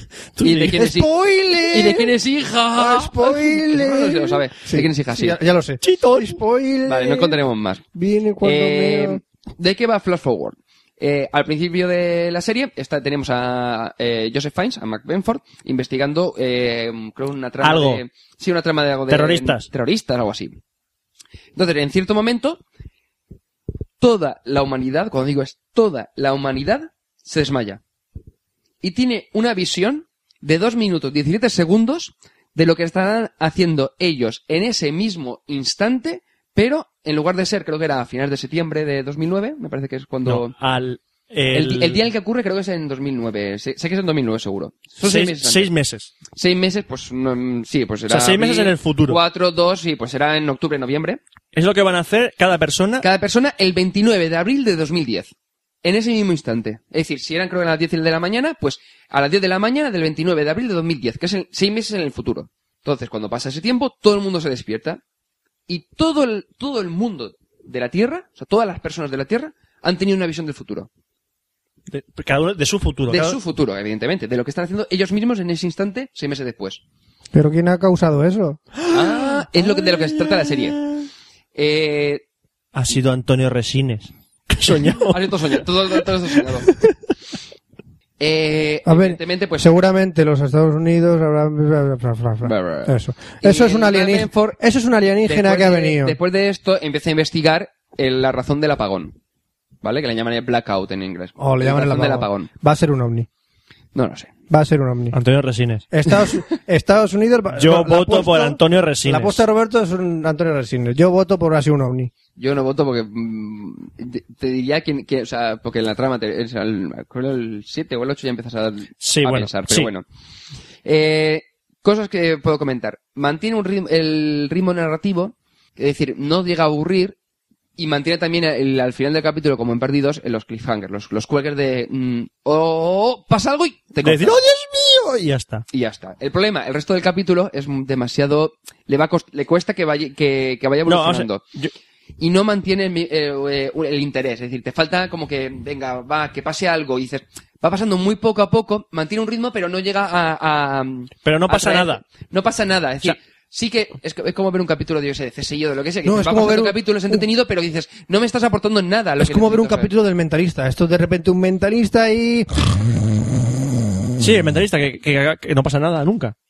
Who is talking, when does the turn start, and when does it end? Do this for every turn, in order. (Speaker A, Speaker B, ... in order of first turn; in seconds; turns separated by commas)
Speaker A: 0.3-0.9, Speaker B: 0.4-1.1, Speaker C: 0.7-2.1, Speaker B: 1.7-5.4, Speaker C: 2.8-7.3, Speaker A: 5.8-6.3, Speaker B: 6.9-7.8, Speaker C: 7.9-9.2, Speaker B: 8.4-20.6, Speaker A: 17.6-18.0, Speaker A: 19.1-19.7, Speaker B: 21.5-22.6, Speaker B: 24.0-27.8, Speaker B: 28.8-40.5, Speaker A: 40.2-42.0, Speaker B: 41.5-45.7, Speaker A: 45.0-46.1, Speaker B: 46.3-51.2, Speaker A: 48.1-49.2, Speaker A: 51.5-53.0, Speaker B: 53.0-55.3, Speaker B: 55.8-65.0, Speaker B: 65.7-70.9, Speaker A: 71.9-73.4, Speaker B: 73.1-76.8, Speaker C: 77.3-78.6, Speaker A: 78.8-81.0, Speaker B: 78.9-80.8, Speaker B: 81.5-82.2, Speaker A: 82.7-85.3, Speaker B: 85.1-86.7, Speaker A: 86.0-86.9, Speaker B: 88.2-89.8, Speaker C: 88.8-96.2, Speaker B: 92.4-94.6, Speaker B: 95.2-99.1, Speaker B: 99.8-102.5, Speaker C: 101.4-103.3, Speaker B: 103.9-104.3, Speaker C: 104.5-105.2, Speaker A: 105.1-105.9, Speaker C: 105.9-112.1, Speaker A: 107.6-109.4, Speaker B: 112.4-120.0, Speaker A: 119.0-119.9, Speaker B: 120.8-127.2, Speaker B: 127.8-134.4, Speaker A: 134.0-135.6, Speaker B: 135.7-141.4, Speaker A: 140.9-141.7, Speaker B: 142.2-159.9, Speaker A: 151.2-152.0, Speaker C: 156.0-157.2, Speaker C: 159.2-162.5, Speaker A: 164.2-166.3